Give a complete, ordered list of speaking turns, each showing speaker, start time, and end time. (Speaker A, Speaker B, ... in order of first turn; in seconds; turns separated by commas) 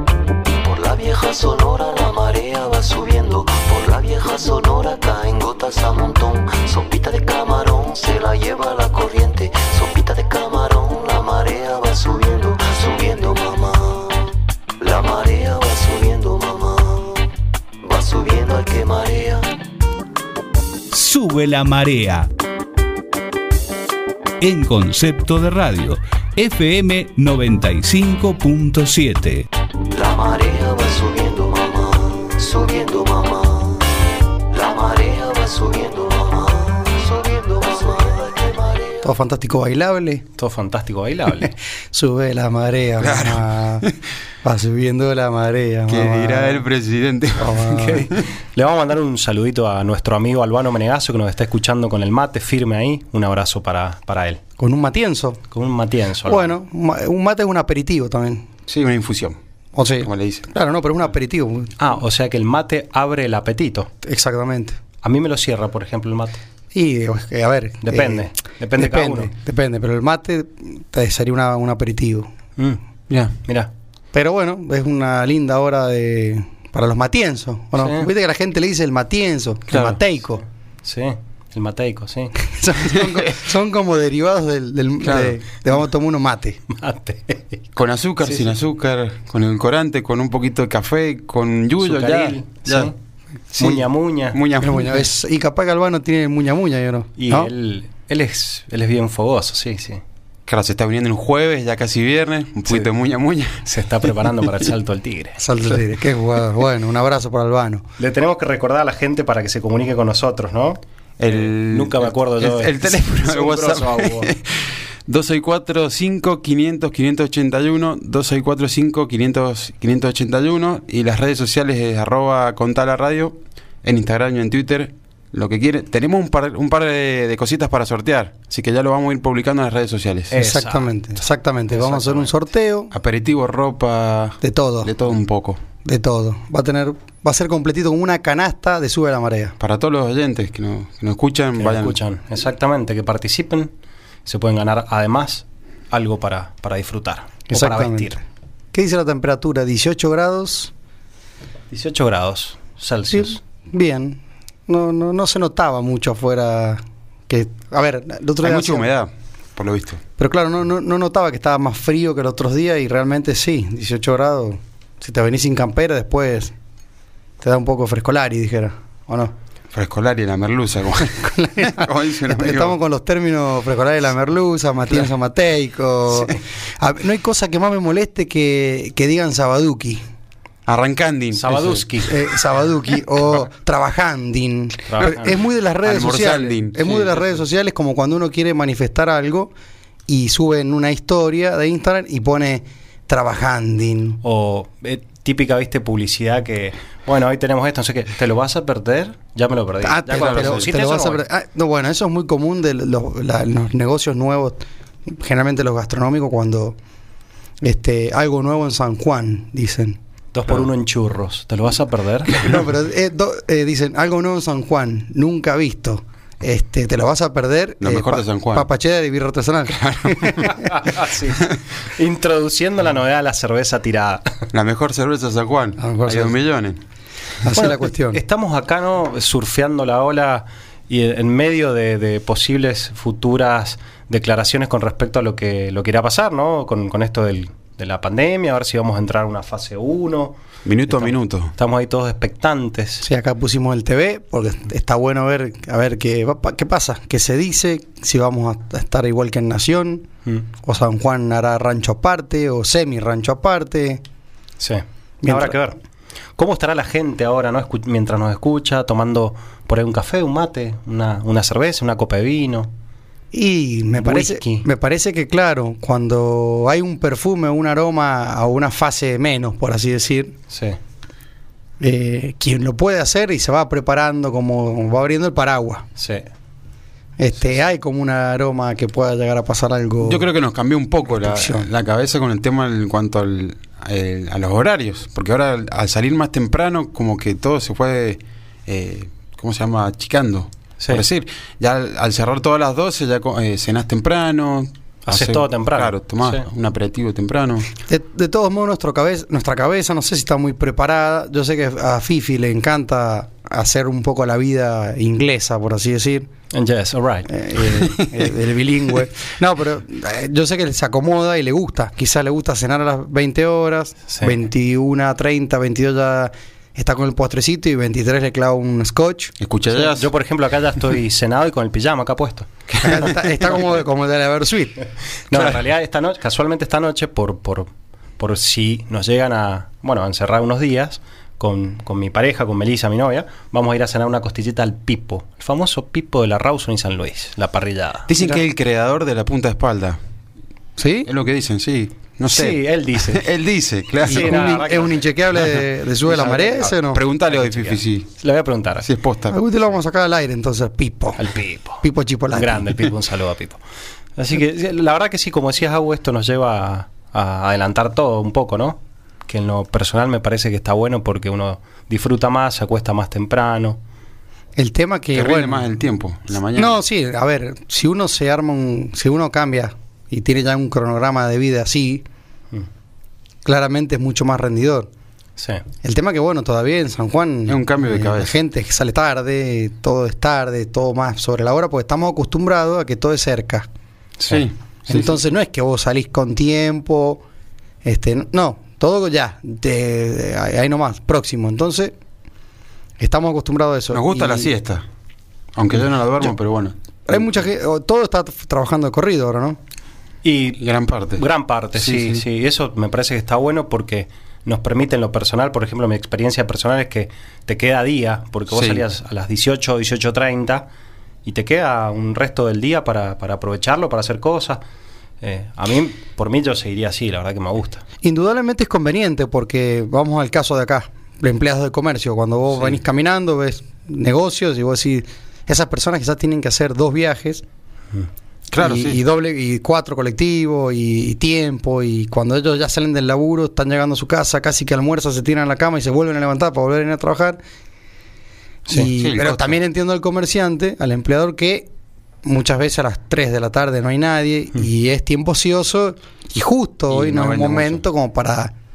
Speaker A: 0.6-14.2, Speaker A: 14.8-17.2, Speaker A: 17.8-19.5, Speaker B: 20.9-22.3, Speaker B: 24.4-29.5, Speaker A: 29.9-33.9, Speaker A: 34.5-39.1, Speaker C: 39.0-40.2, Speaker D: 40.4-41.5, Speaker C: 41.9-43.9, Speaker E: 43.0-44.0, Speaker C: 44.4-46.6, Speaker E: 45.9-48.1, Speaker C: 47.4-48.1, Speaker D: 47.8-54.4, Speaker C: 54.6-55.4, Speaker D: 55.5-56.6, Speaker C: 56.2-58.5, Speaker E: 58.7-59.4, Speaker C: 59.7-61.7, Speaker E: 60.0-60.5, Speaker D: 61.8-63.9, Speaker C: 64.0-64.8, Speaker D: 65.0-66.4, Speaker C: 66.7-68.2, Speaker D: 67.8-69.3, Speaker C: 68.8-72.3, Speaker E: 73.1-73.3, Speaker D: 73.4-73.7, Speaker C: 74.1-80.4, Speaker D: 77.8-78.1, Speaker E: 79.7-80.0, Speaker D: 80.8-82.3, Speaker C: 82.4-86.6, Speaker E: 82.9-83.3, Speaker E: 85.0-85.4, Speaker D: 86.7-87.6, Speaker E: 87.7-92.9, Speaker D: 91.8-92.9, Speaker D: 93.5-94.4, Speaker E: 93.6-95.1, Speaker C: 94.6-97.5, Speaker D: 97.2-100.0, Speaker E: 100.5-103.7, Speaker D: 103.6-105.4, Speaker C: 105.4-107.8, Speaker D: 108.0-114.3, Speaker E: 111.2-130.4, Speaker D: 130.3-130.9, Speaker C: 130.3-132.9, Speaker D: 131.7-132.4, Speaker E: 132.9-135.6, Speaker C: 134.4-134.9, Speaker C: 135.8-139.6, Speaker E: 139.6-142.0, Speaker D: 141.6-143.7, Speaker D: 144.2-148.2, Speaker C: 147.5-148.2, Speaker C: 148.7-150.7, Speaker D: 151.7-153.4, Speaker C: 153.1-158.9, Speaker E: 158.4-160.0, Speaker C: 160.2-166.5, Speaker C: 167.4-169.3, Speaker E: 169.7-172.8, Speaker C: 171.0-180.0, Speaker E: 180.7-182.0, Speaker D: 181.3-182.1, Speaker C: 182.1-189.5, Speaker D: 184.9-185.4, Speaker E: 185.8-187.2, Speaker C: 190.1-194.2, Speaker D: 194.2-201.2, Speaker C: 199.8-206.8, Speaker E: 200.1-200.7, Speaker C: 207.6-210.0, Speaker D: 210.3-212.4, Speaker C: 212.3-220.7, Speaker E: 217.8-218.7, Speaker E: 219.7-220.4, Speaker D: 220.4-224.3, Speaker E: 224.5-226.8, Speaker C: 225.8-226.3, Speaker C: 227.4-228.2, Speaker D: 227.5-240.4, Speaker E: 240.6-241.5, Speaker D: 240.9-243.1, Speaker C: 243.0-250.1, Speaker C: 250.6-254.0, Speaker D: 254.6-255.8, Speaker C: 255.2-255.5, Speaker D: 256.4-262.7, Speaker C: 263.3-270.3, Speaker D: 264.0-264.6, Speaker D: 270.5-270.8, Speaker C: 271.8-275.8, Speaker D: 276.0-276.2, Speaker C: 277.2-280.2, Speaker E: 280.0-297.7, Speaker C: 281.1-281.7, Speaker D: 295.1-296.4, Speaker C: 297.9-306.3, Speaker D: 306.5-307.3, Speaker C: 307.3-319.3, Speaker E: 308.0-308.3, Speaker D: 314.1-314.3, Speaker E: 319.4-320.1, Speaker D: 319.7-322.5, Speaker E: 322.7-323.4, Speaker C: 322.8-324.8, Speaker D: 325.3-338.1, Speaker E: 338.1-340.0, Speaker C: 340.8-341.1, Speaker E: 341.0-344.7, Speaker D: 342.2-343.2, Speaker D: 344.0-345.1, Speaker C: 344.1-347.0, Speaker D: 346.0-348.9, Speaker E: 346.2-348.1, Speaker E: 348.8-349.4, Speaker C: 349.3-351.3, Speaker D: 351.2-353.6, Speaker C: 351.8-352.6, Speaker D: 354.1-363.8, Speaker C: 364.6-365.7, Speaker E: 365.1-366.8, Speaker C: 366.6-372.0, Speaker C: 373.4-374.9, Speaker D: 375.4-375.6, Speaker C: 375.8-383.7, Speaker E: 377.5-378.4, Speaker D: 384.2-384.4, Speaker E: 384.2-385.2, Speaker C: 384.9-387.2, Speaker C: 387.8-391.9, Speaker C: 393.0-394.5, Speaker E: 393.9-394.8, Speaker E: 395.6-397.4, Speaker C: 397.1-399.6, Speaker D: 400.2-400.6, Speaker E: 400.6-401.2, Speaker D: 401.1-410.7, Speaker E: 401.7-402.2, Speaker E: 408.5-408.8, Speaker D: 411.2-414.6, Speaker D: 415.2-417.8, Speaker C: 418.0-427.4, Speaker E: 428.5-429.0, Speaker C: 428.6-437.4, Speaker C: 438.7-441.7, Speaker E: 438.9-439.6, Speaker C: 442.2-448.5, Speaker E: 446.9-447.8